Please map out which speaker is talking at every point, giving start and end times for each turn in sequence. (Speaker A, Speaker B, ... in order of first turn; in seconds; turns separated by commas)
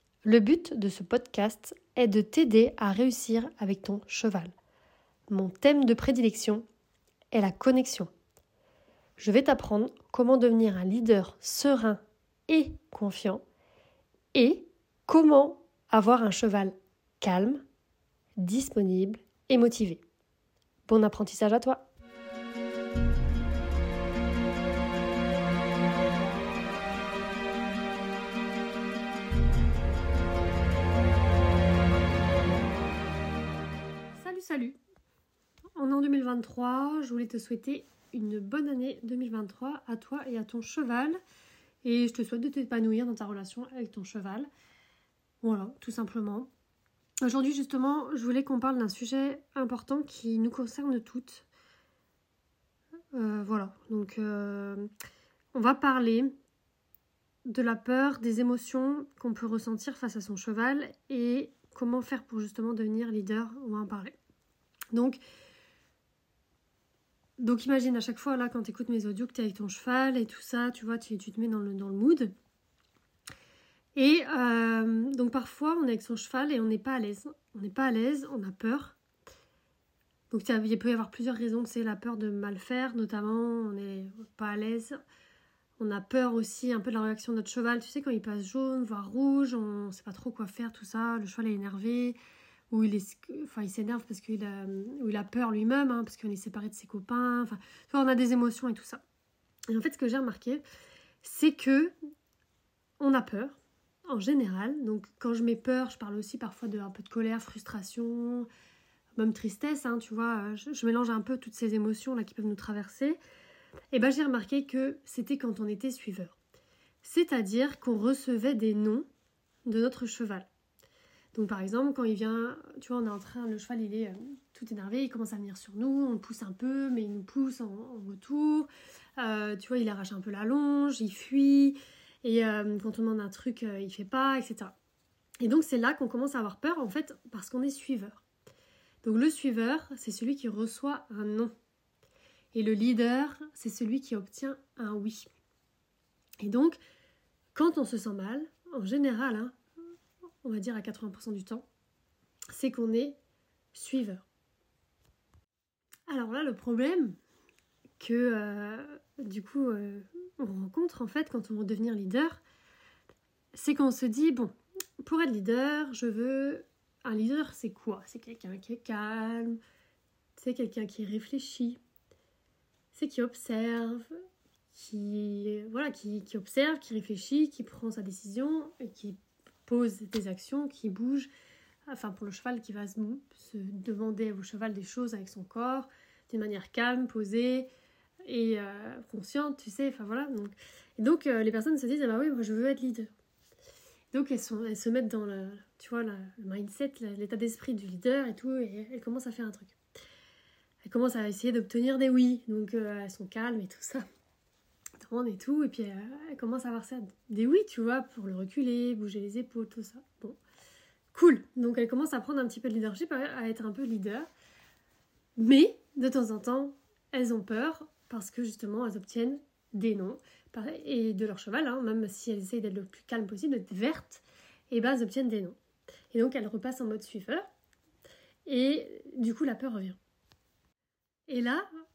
Speaker A: 0.2-4.5, Speaker A: 5.3-6.6, Speaker A: 7.3-8.1, Speaker A: 9.2-13.4, Speaker A: 14.3-17.6, Speaker A: 18.4-20.0, Speaker A: 20.9-21.9, Speaker A: 34.1-34.8, Speaker A: 35.8-41.2, Speaker A: 41.8-44.5, Speaker A: 45.4-46.5, Speaker A: 47.2-51.5, Speaker A: 53.1-54.9, Speaker A: 55.5-56.3, Speaker A: 57.5-64.2, Speaker A: 64.9-65.2, Speaker A: 67.4-72.3, Speaker A: 73.9-79.0, Speaker A: 80.3-85.0, Speaker A: 85.8-92.2, Speaker A: 92.7-99.0, Speaker A: 99.7-100.6, Speaker A: 101.2-101.9, Speaker A: 103.0-108.5, Speaker A: 109.2-113.2, Speaker A: 113.9-116.4, Speaker A: 117.0-119.0, Speaker A: 119.7-120.5, Speaker A: 121.3-134.7, Speaker A: 135.4-138.2, Speaker A: 139.0-141.5, Speaker A: 142.5-145.3, Speaker A: 146.4-146.8, Speaker A: 147.5-149.6, Speaker A: 150.4-151.6, Speaker A: 152.5-153.2, Speaker A: 153.7-154.2, Speaker A: 156.1-157.2, Speaker A: 158.0-162.4, Speaker A: 163.5-169.6, Speaker A: 170.4-171.8, Speaker A: 172.9-174.1, Speaker A: 174.7-181.3, Speaker A: 181.9-187.7, Speaker A: 188.2-193.1, Speaker A: 194.1-199.8, Speaker A: 200.8-204.0, Speaker A: 205.0-210.4, Speaker A: 211.1-214.3, Speaker A: 215.4-225.6, Speaker A: 226.1-227.4, Speaker A: 228.4-230.0, Speaker A: 231.3-231.7